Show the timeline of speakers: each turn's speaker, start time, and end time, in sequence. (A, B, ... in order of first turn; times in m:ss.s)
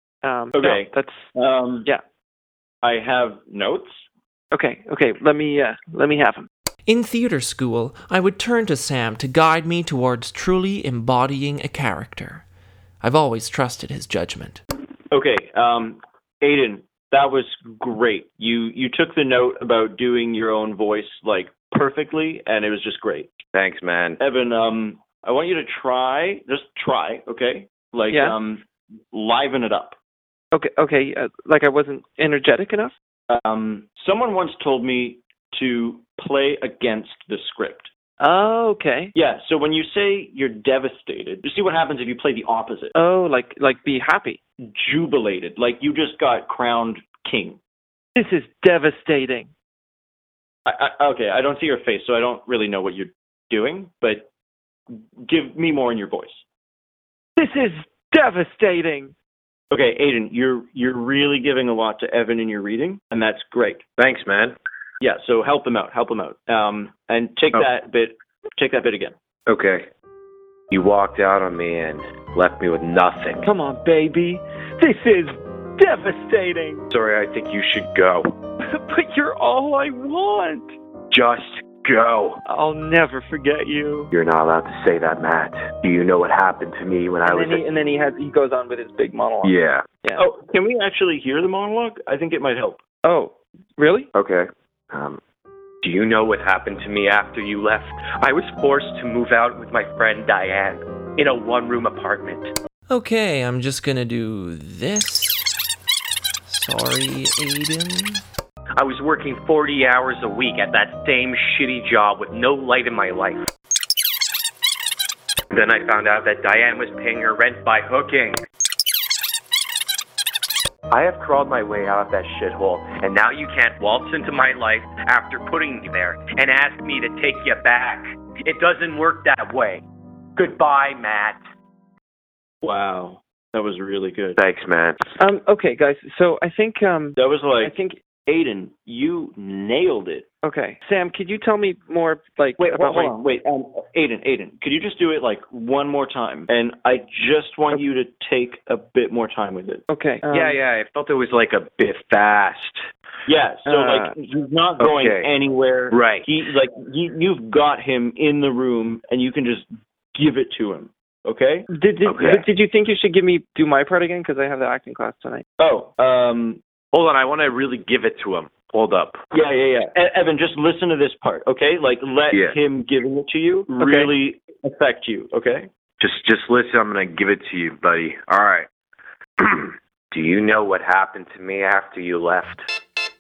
0:00.2-0:01.3 A
0:00.6-0:01.9 B
0:02.8-0:04.0 B
0:04.5-0:06.5 A
0:06.9-0:12.4 C
0:13.0-0:14.6 C
0:15.1-0:23.3 B
0:23.5-0:24.2 D
0:24.2-0:30.0 B
0:28.1-0:28.4 A
0:30.5-0:32.9 A
0:33.3-0:37.9 B
0:38.2-0:39.1 A
0:39.1-0:42.9 B
0:43.0-0:44.4 A
0:44.6-0:47.6 B
0:48.2-0:49.5 A
0:50.7-0:54.3 B
0:55.2-0:56.4 B
0:57.4-0:59.1 A
0:59.7-1:03.8 B
1:04.0-1:04.6 D
1:05.0-1:09.1 B
1:09.5-1:09.8 D
1:10.7-1:13.4 D
1:13.4-1:16.8 A
1:16.9-1:18.3 D
1:18.6-1:20.7 A
1:21.1-1:22.4 D
1:22.5-1:24.1 A
1:24.1-1:27.6 D
1:27.2-1:30.2 A
1:29.4-1:29.8 D
1:30.2-1:32.8 B
1:33.0-1:34.1 A
1:34.1-1:35.2 D
1:35.8-1:42.5 D
1:42.9-1:45.5 C
1:46.4-1:48.2 C
1:48.8-1:53.4 D
1:55.5-1:58.4 D
2:00.9-2:09.8 D
2:10.4-2:11.4 D
2:12.6-2:14.4 B
2:14.4-2:15.0 D
2:15.2-2:18.0 A
2:17.2-2:20.3 B
2:20.4-2:23.1 A
2:22.6-2:29.8 B
2:29.9-2:30.6 A
2:30.3-2:32.8 D
2:33.3-2:41.7 B
2:33.7-2:34.1 A
2:34.8-2:35.3 D
2:35.9-2:36.3 D
2:41.7-2:45.4 A
2:42.1-2:42.4 D
2:45.6-2:46.6 B
2:46.9-2:49.2 D
2:49.3-2:55.7 B
2:53.8-2:54.1 A
2:56.0-2:58.7 D
2:59.4-3:02.6 D